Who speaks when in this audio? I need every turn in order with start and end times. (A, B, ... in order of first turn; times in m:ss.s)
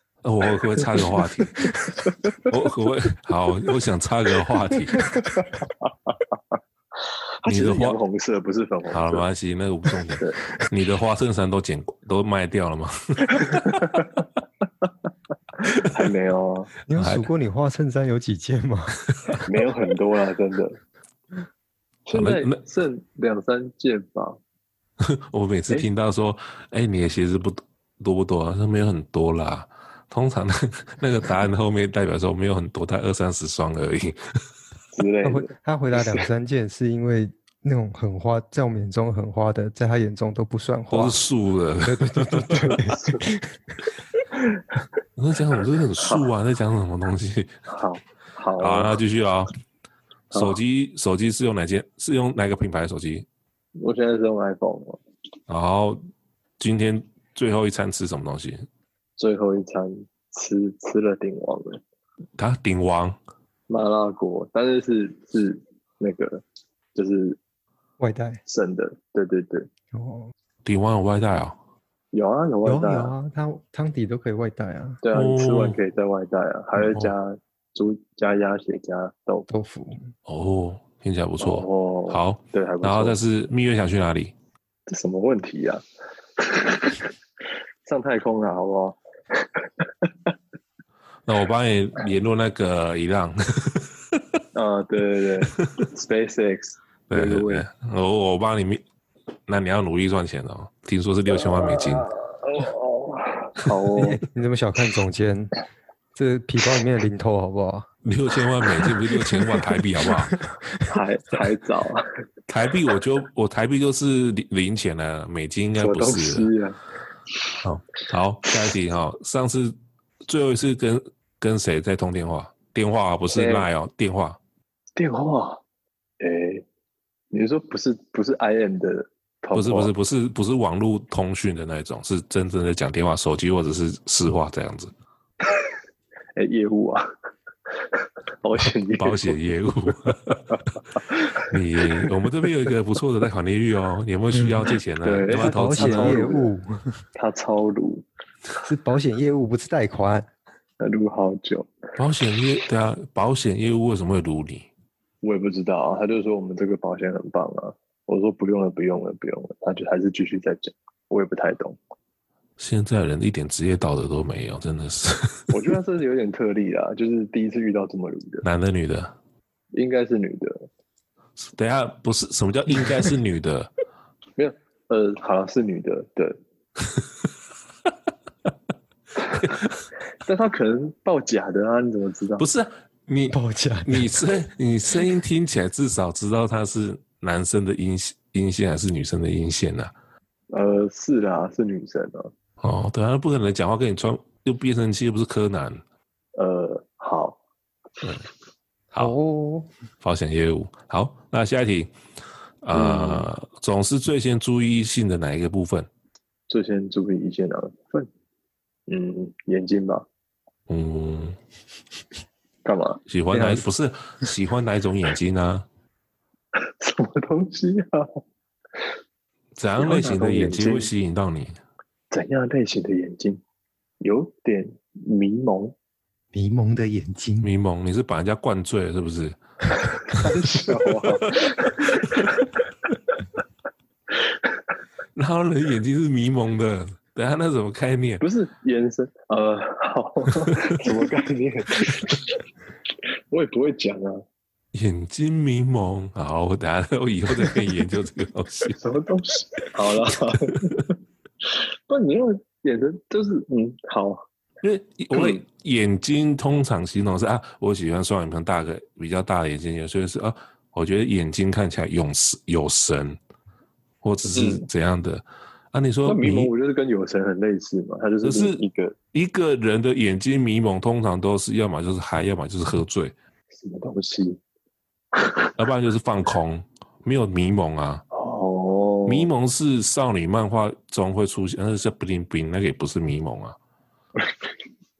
0:00.2-0:01.8 A
0:01.6-0:02.4 B
0:02.5-0:05.2 A
0:05.2-0:06.6 B
0:07.4-0:09.2 B
0:07.5-0:08.0 A
0:08.9-0:14.0 A
0:13.4-0:14.1 B
0:15.6-0:16.7 B
0:16.9-0:19.0 C
0:17.0-0:17.3 A
0:19.4-0:20.8 B
0:22.1-0:24.4 B
0:22.1-0:22.6 A
0:25.0-0:34.4 A
0:34.9-0:36.3 B
0:35.2-0:41.2 C
0:40.9-0:42.9 A
0:41.8-0:43.6 C
0:42.9-0:43.2 B
0:45.2-0:47.6 A
0:46.0-0:46.3 B
0:47.7-0:49.0 B
0:48.6-0:49.5 A
0:50.3-0:50.6 B
0:50.3-0:53.3 A
0:53.8-0:55.0 B
0:55.5-0:56.0 A
0:56.6-0:58.7 A
0:59.2-1:01.8 B
1:02.4-1:03.2 A
1:03.7-1:06.4 B
1:06.9-1:07.4 B
1:08.0-1:08.4 C
1:08.4-1:09.7 B
1:09.9-1:10.3 C
1:10.6-1:11.6 A
1:12.1-1:13.2 B
1:12.6-1:15.0 C
1:15.0-1:19.5 B
1:15.1-1:15.8 A
1:16.8-1:17.1 A
1:19.5-1:20.1 C
1:20.3-1:24.3 A
1:21.4-1:23.2 B
1:24.9-1:25.8 B
1:26.4-1:27.1 B
1:27.8-1:30.1 B
1:31.3-1:33.9 A
1:34.5-1:37.6 B
1:37.1-1:38.8 A
1:39.5-1:42.1 A
1:41.3-1:44.2 B
1:44.0-1:45.5 C
1:46.2-1:47.9 C
1:48.0-1:50.4 A
1:50.1-1:50.7 C
1:50.9-1:52.0 B
1:52.5-1:56.5 A
1:55.8-1:56.8 B
1:57.6-2:04.4 A
2:03.3-2:03.7 B
2:05.0-2:05.6 B
2:06.2-2:06.6 B
2:07.3-2:09.9 B
2:09.6-2:14.9 A
2:16.4-2:17.1 B
2:17.8-2:19.4 B
2:19.0-2:20.4 A
2:20.5-2:22.1 B
2:21.5-2:26.2 A
2:25.0-2:26.5 B
2:25.3-2:27.0 C
2:27.2-2:28.0 B
2:28.6-2:30.3 C
2:30.8-2:31.7 B
2:32.0-2:34.7 A
2:35.2-2:41.8 B
2:42.6-2:45.6 A
2:45.5-2:48.4 B
2:48.4-2:49.2 A
2:49.7-2:50.7 B
2:51.4-2:53.7 A
2:54.4-2:56.4 B
2:59.4-2:59.7 A
3:00.2-3:02.5 B
3:02.4-3:09.9 A
3:03.3-3:04.2 C
3:10.5-3:12.3 B
3:12.6-3:15.8 A
3:16.4-3:17.4 B
3:18.9-3:19.2 A
3:19.0-3:19.7 C
3:20.0-3:21.9 A
3:22.6-3:25.9 A
3:22.7-3:23.3 B
3:26.5-3:28.1 B
3:28.9-3:30.1 B
3:30.7-3:31.4 A
3:32.6-3:33.0 B
3:33.1-3:35.7 A
3:33.3-3:33.6 C
3:36.6-3:38.2 B
3:39.6-3:41.6 A
3:39.8-3:40.9 B
3:42.1-3:43.4 B
3:44.0-3:45.8 B
3:46.3-3:47.5 C
3:47.4-3:49.4 A
3:50.0-3:51.0 A
3:50.1-3:52.5 B
3:55.2-3:58.2 A
3:58.2-4:02.4 B
4:03.3-4:04.2 B
4:04.7-4:08.8 A
4:08.7-4:10.9 B
4:11.5-4:14.2 B
4:14.6-4:23.2 A
4:15.1-4:15.4 B
4:24.0-4:26.5 A
4:24.3-4:24.7 B
4:26.0-4:29.0 B
4:28.2-4:28.6 A
4:29.1-4:33.1 A
4:33.5-4:34.4 B
4:35.2-4:35.5 B
4:35.6-4:38.0 A
4:38.1-4:39.3 B
4:39.1-4:43.6 A
4:44.2-4:44.5 B